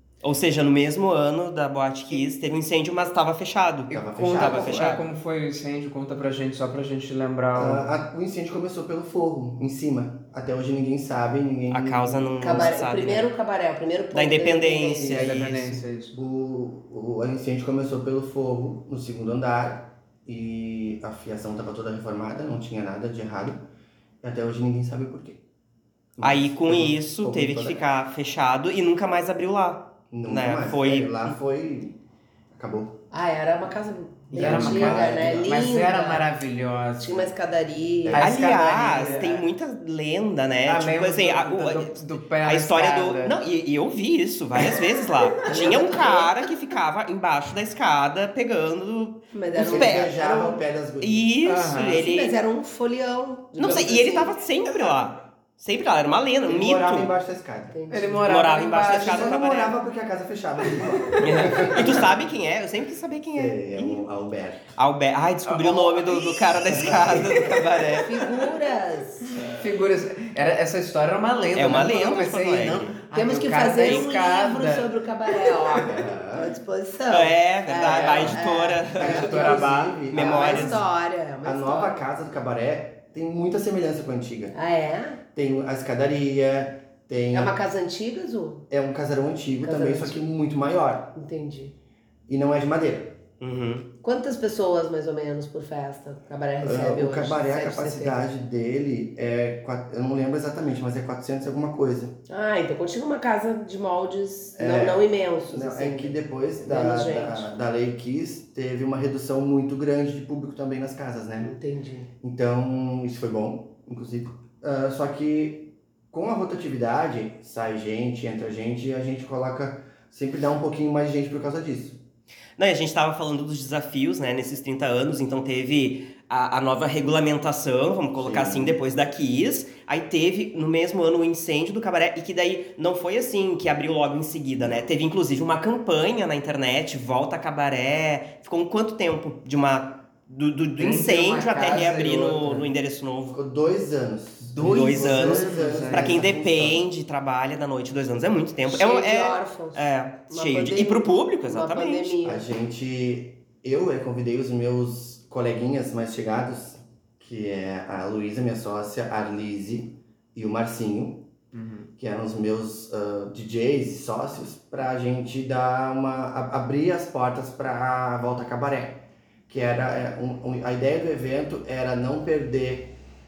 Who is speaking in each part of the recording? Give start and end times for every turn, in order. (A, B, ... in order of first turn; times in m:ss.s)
0:00.2-0:05.0 A
0:03.9-0:07.9 B
0:03.9-0:04.9 C
0:07.5-0:12.8 C
0:11.7-0:13.3 A
0:12.4-0:15.3 D
0:14.1-0:15.7 A
0:15.1-0:16.2 B
0:15.3-0:23.6 C
0:24.2-0:25.4 C
0:26.2-0:27.8 C
0:26.2-0:31.4 A
0:30.1-0:32.0 C
0:32.5-0:33.0 C
0:33.1-0:36.3 D
0:34.3-0:35.8 C
0:34.3-0:37.3 B
0:37.0-0:38.3 D
0:38.0-0:38.4 C
0:38.1-0:39.5 B
0:38.2-0:50.2 A
0:40.6-0:43.4 B
0:45.4-0:46.4 D
0:49.3-0:50.6 D
0:49.6-0:51.3 C
0:51.0-0:52.3 A
0:51.4-0:52.0 B
0:51.8-0:54.4 D
0:53.6-0:57.1 A
0:56.4-0:57.8 C
0:57.7-0:58.5 D
0:57.9-0:59.4 B
0:58.2-0:59.7 A
0:58.9-1:02.1 C
1:01.2-1:04.0 A
1:03.3-1:04.8 C
1:04.8-1:08.1 A
1:05.4-1:07.6 B
1:06.8-1:07.4 C
1:07.9-1:09.3 D
1:09.3-1:15.9 B
1:11.5-1:12.9 A
1:13.1-1:22.0 D
1:15.8-1:16.5 C
1:17.1-1:19.6 A
1:17.9-1:18.4 B
1:18.9-1:20.9 C
1:19.0-1:20.0 B
1:20.1-1:20.8 A
1:21.4-1:24.5 C
1:24.5-1:25.2 D
1:25.3-1:27.6 C
1:27.3-1:28.6 D
1:28.7-1:31.2 C
1:29.6-1:30.2 D
1:31.1-1:31.7 D
1:32.3-1:33.2 C
1:33.4-1:33.9 A
1:34.0-1:38.2 D
1:36.6-1:42.2 C
1:42.3-1:47.5 D
1:44.6-1:51.6 C
1:51.4-1:52.1 D
1:52.2-2:02.0 C
2:02.6-2:23.4 A
2:08.1-2:08.8 C
2:20.8-2:22.7 B
2:23.3-2:26.9 C
2:24.5-2:26.3 B
2:24.6-2:32.2 A
2:28.6-2:32.4 D
2:32.2-2:41.3 C
2:41.5-2:41.9 B
2:42.0-2:53.0 C